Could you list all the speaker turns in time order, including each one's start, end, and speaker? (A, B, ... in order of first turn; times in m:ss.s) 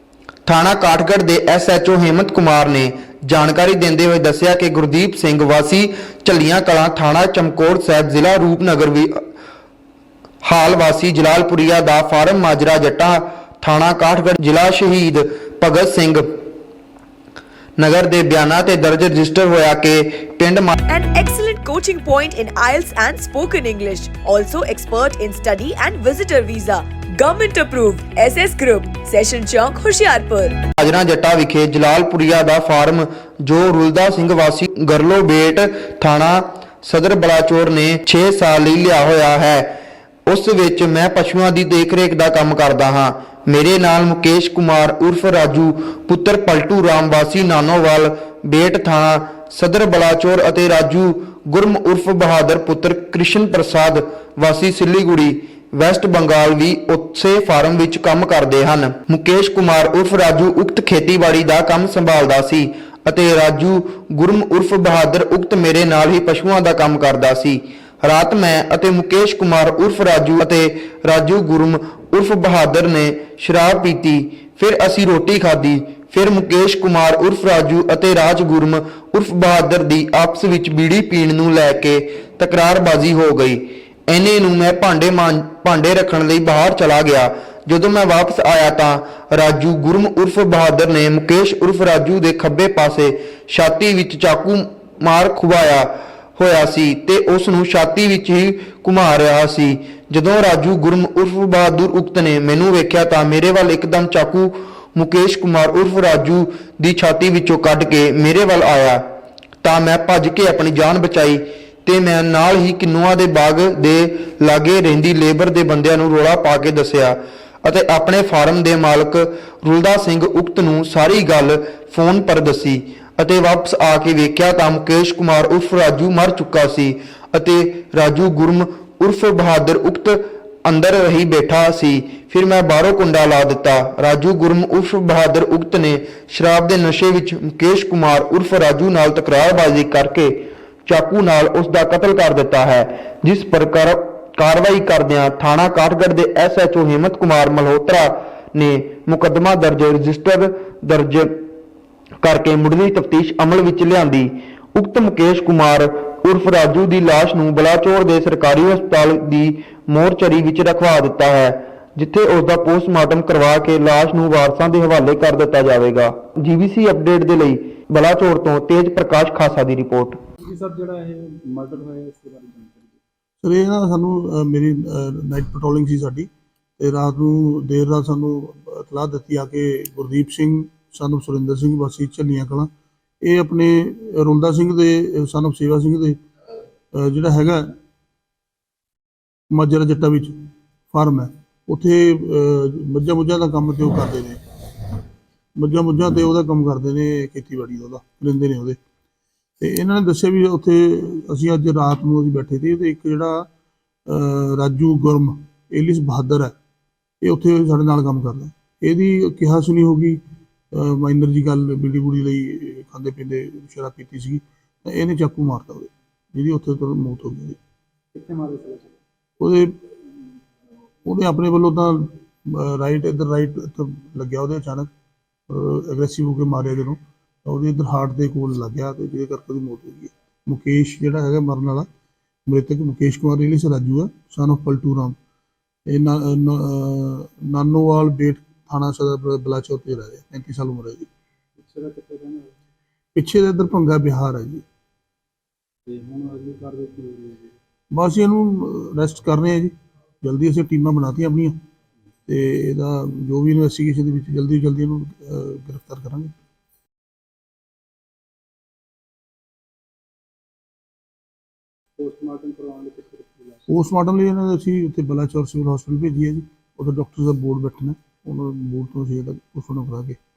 0:00.4-0:09.1 A
0:10.4-0:16.3 A
0:17.8-0:20.8 A
0:20.9-0:30.6 B
0:30.8-0:39.7 A
0:40.3-1:49.0 A
1:49.6-2:31.4 A
2:32.2-2:50.2 A
2:50.4-2:53.0 C
2:53.4-3:02.7 D
3:03.2-3:06.2 D
3:06.9-3:07.7 D
3:09.5-3:14.4 D
3:15.6-3:18.8 D
3:19.6-3:23.5 D
3:24.1-3:26.5 D
3:27.2-3:30.2 D
3:30.7-3:37.6 D
3:38.1-3:39.0 C
3:39.4-3:40.0 D
3:41.0-3:44.9 D
3:45.5-3:51.9 D
3:52.5-3:55.2 D
3:55.9-4:01.1 D
4:01.6-4:02.5 C
4:03.1-4:04.6 D
4:05.8-4:07.5 C
4:07.9-4:11.6 D
4:12.3-4:16.3 D
4:22.0-4:23.6 C
4:23.7-4:30.2 D